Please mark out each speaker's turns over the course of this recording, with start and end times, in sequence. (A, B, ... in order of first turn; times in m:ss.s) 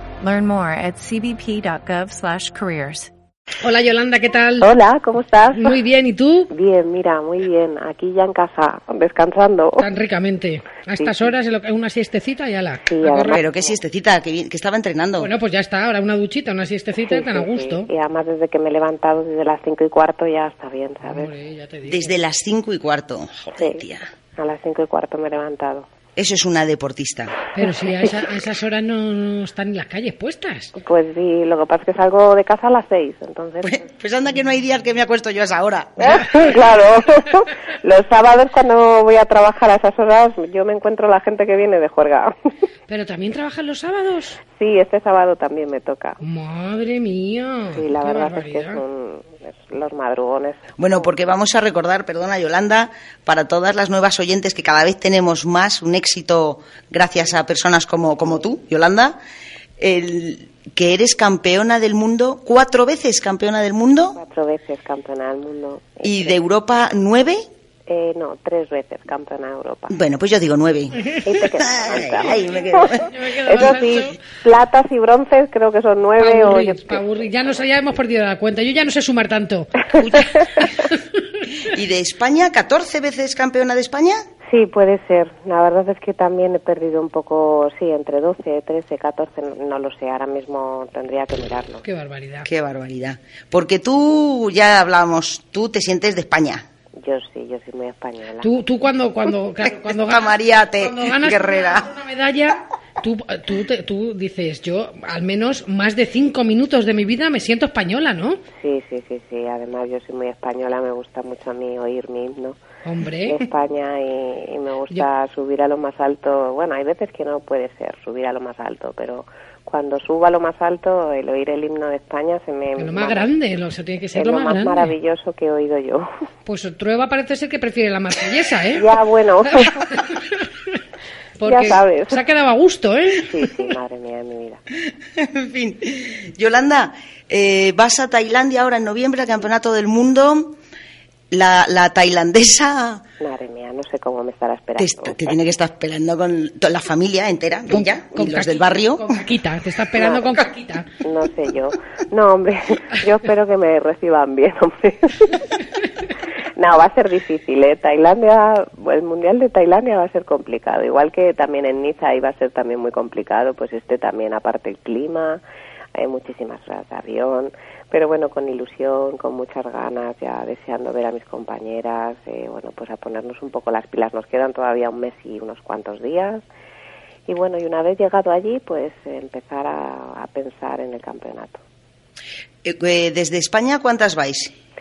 0:00.2-0:03.1 A
0:03.6-0:04.7 B
0:04.6-0:05.8 C
0:05.5-0:06.5 B
0:06.5-0:09.9 C
0:09.8-0:13.4 B
0:11.0-0:11.3 C
0:12.8-0:13.8 C
0:13.3-0:15.3 D
0:15.2-0:17.9 B
0:17.0-0:21.3 C
0:21.0-0:22.1 B
0:21.9-0:24.1 D
0:23.5-0:23.8 C
0:24.4-0:25.9 C
0:26.2-0:27.4 D
0:27.5-0:30.7 B
0:30.8-0:33.8 C
0:33.6-0:36.2 D
0:36.0-0:42.3 C
0:42.9-0:44.4 B
0:44.6-0:46.2 C
0:46.2-0:48.8 B
0:47.7-0:51.1 C
0:50.8-0:59.2 D
0:59.8-1:04.2 D
1:04.2-1:06.4 C
1:06.0-1:07.4 D
1:07.9-1:10.0 C
1:09.9-1:13.1 D
1:11.2-1:17.0 C
1:13.1-1:14.2 B
1:16.2-1:21.0 B
1:21.6-1:24.2 D
1:24.5-1:31.8 C
1:31.8-1:32.5 B
1:32.4-1:36.6 D
1:37.0-1:38.6 C
1:38.4-1:48.4 B
1:39.6-1:41.9 D
1:48.6-1:52.6 C
1:52.8-1:53.4 B
1:53.2-2:03.3 C
2:02.8-2:04.9 B
2:04.1-2:06.1 C
2:06.4-2:08.8 B
2:08.7-2:09.8 C
2:09.6-2:10.8 B
2:11.4-2:13.7 B
2:11.4-2:12.2 C
2:13.2-2:14.6 C
2:15.2-2:20.6 D
2:21.3-2:23.0 D
2:23.2-2:25.3 C
2:24.8-2:29.2 D
2:27.7-2:30.8 B
2:30.0-2:30.3 C
2:31.0-2:35.5 C
2:36.6-2:45.4 C
2:45.9-2:56.4 C
2:57.3-3:01.6 C
3:02.6-3:04.5 D